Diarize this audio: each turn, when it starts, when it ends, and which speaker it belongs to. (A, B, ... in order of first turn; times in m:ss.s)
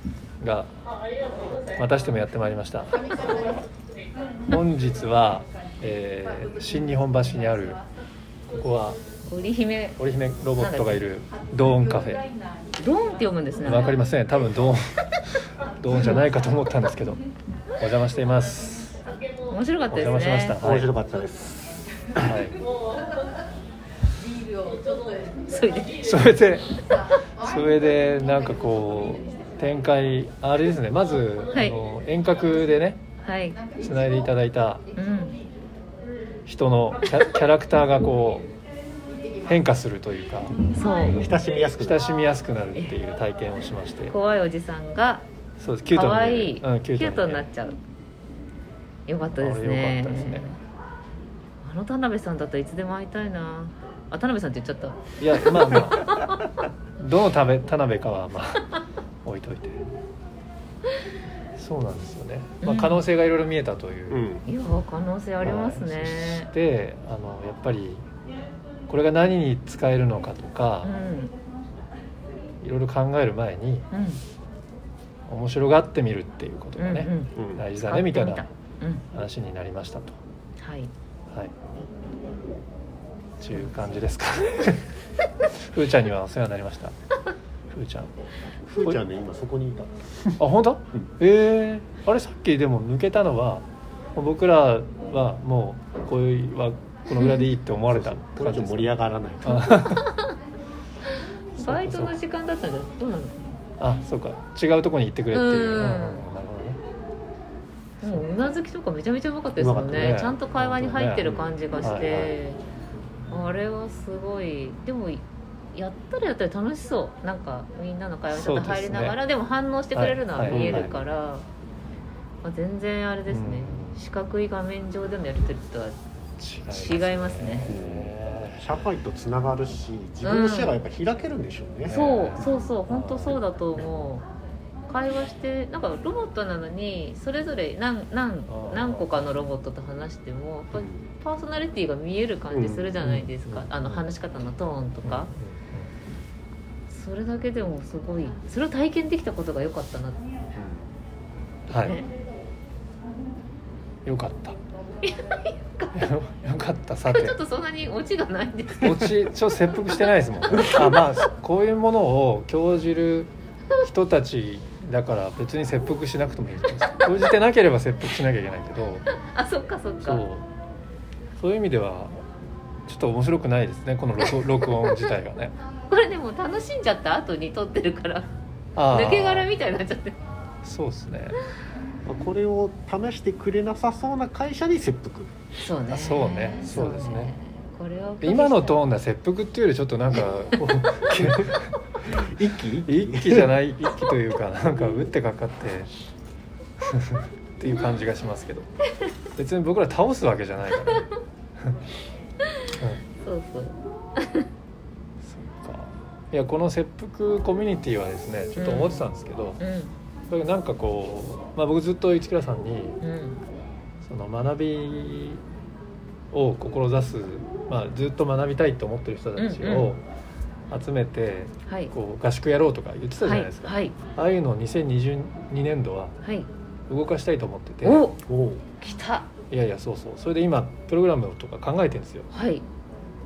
0:00.4-0:00.7 A
0:01.7-0:03.1 A
0:04.5-0:07.8 A
0:08.5-0:09.0 A
0:09.3-0:10.0 B
0:10.0-0:12.3 A
0:10.6-0:11.0 B
0:12.8-0:14.0 B
0:13.6-0:15.2 A
0:15.8-0:17.2 A
0:17.8-0:19.0 A
0:19.5-0:20.6 B
0:19.9-0:20.9 A
0:20.6-0:22.3 C
0:22.2-0:22.6 A
0:25.5-0:26.0 B
0:26.0-0:33.0 A
0:33.2-0:33.6 B
0:33.7-0:34.8 A
0:34.9-0:35.4 B
0:36.4-0:38.5 A
0:39.4-0:40.6 A
0:40.7-0:41.2 B
0:41.1-0:42.1 C
0:41.8-0:44.1 A
0:44.1-0:45.2 B
0:45.6-0:47.5 A
0:45.9-0:47.8 B
0:49.1-0:50.6 B
0:49.4-0:50.5 A
0:51.6-0:56.3 B
0:55.2-0:56.2 A
0:57.0-0:59.8 A
1:01.5-1:04.2 A
1:02.6-1:03.0 B
1:04.1-1:04.4 C
1:04.4-1:06.5 B
1:05.4-1:08.0 A
1:08.9-1:11.0 A
1:10.8-1:11.3 B
1:12.6-1:13.9 A
1:13.9-1:14.2 B
1:15.3-1:18.5 A
1:16.8-1:19.0 B
1:17.4-1:17.6 C
1:19.1-1:20.2 A
1:20.6-1:20.9 B
1:23.4-1:24.9 A
1:25.6-1:26.9 A
1:27.7-1:28.1 A
1:28.6-1:30.4 C
1:30.4-1:38.9 A
1:37.9-1:39.6 C
1:39.4-1:40.1 A
1:39.4-1:40.3 B
1:41.6-1:42.2 A
1:41.6-1:43.6 B
1:43.8-1:46.8 A
1:45.3-1:46.3 B
1:48.0-1:52.6 B
1:48.0-1:48.3 A
1:49.6-1:50.3 C
1:49.9-1:52.3 A
1:51.2-1:52.0 C
1:53.3-2:01.5 B
1:58.3-1:59.2 A
1:59.9-2:00.9 A
2:00.5-2:01.0 C
2:02.4-2:06.0 B
2:03.3-2:04.0 A
2:06.4-2:08.7 A
2:06.7-2:07.7 B
2:07.6-2:12.0 C
2:10.2-2:10.8 B
2:11.8-2:13.4 A
2:11.9-2:14.2 B
2:14.9-2:25.3 B
2:18.5-2:19.2 A
2:20.7-2:21.0 C
2:22.5-2:23.0 C
2:23.0-2:24.0 A
2:25.0-2:25.9 A
2:26.9-2:30.2 B
2:30.5-2:30.9 C
2:31.7-2:32.0 A
2:31.8-2:32.1 B
2:34.0-2:34.6 A
2:35.0-2:36.0 B
2:35.9-2:37.4 A
2:37.1-2:41.1 B
2:38.8-2:49.0 A
2:49.1-2:50.2 B
2:50.0-2:50.4 A
2:51.4-2:52.2 A
2:52.9-2:55.5 A
2:54.3-2:55.0 B
2:55.9-2:58.3 B
2:58.8-2:59.5 A
2:58.8-3:00.2 B
3:00.6-3:01.4 A
3:02.0-3:05.3 C
3:05.6-3:08.8 B
3:05.9-3:07.3 A
3:08.2-3:11.7 A
3:11.3-3:13.5 C
3:12.8-3:15.9 A
3:16.8-3:18.7 A
3:19.4-3:21.1 A
3:23.1-3:24.5 B
3:25.2-3:29.6 A
3:28.6-3:29.1 B
3:29.6-3:29.9 B
3:30.3-3:33.0 A
3:33.0-3:33.4 B
3:34.0-3:35.4 A
3:36.3-3:40.0 A
3:39.4-3:40.0 B
3:40.7-3:46.2 A
3:41.6-3:41.9 B
3:43.2-3:44.0 B
3:46.2-3:46.5 B
3:46.9-3:48.0 A
3:47.8-3:48.2 B
3:48.2-3:48.6 C
3:48.8-3:49.3 B
3:49.5-3:52.3 A
3:52.3-3:52.6 B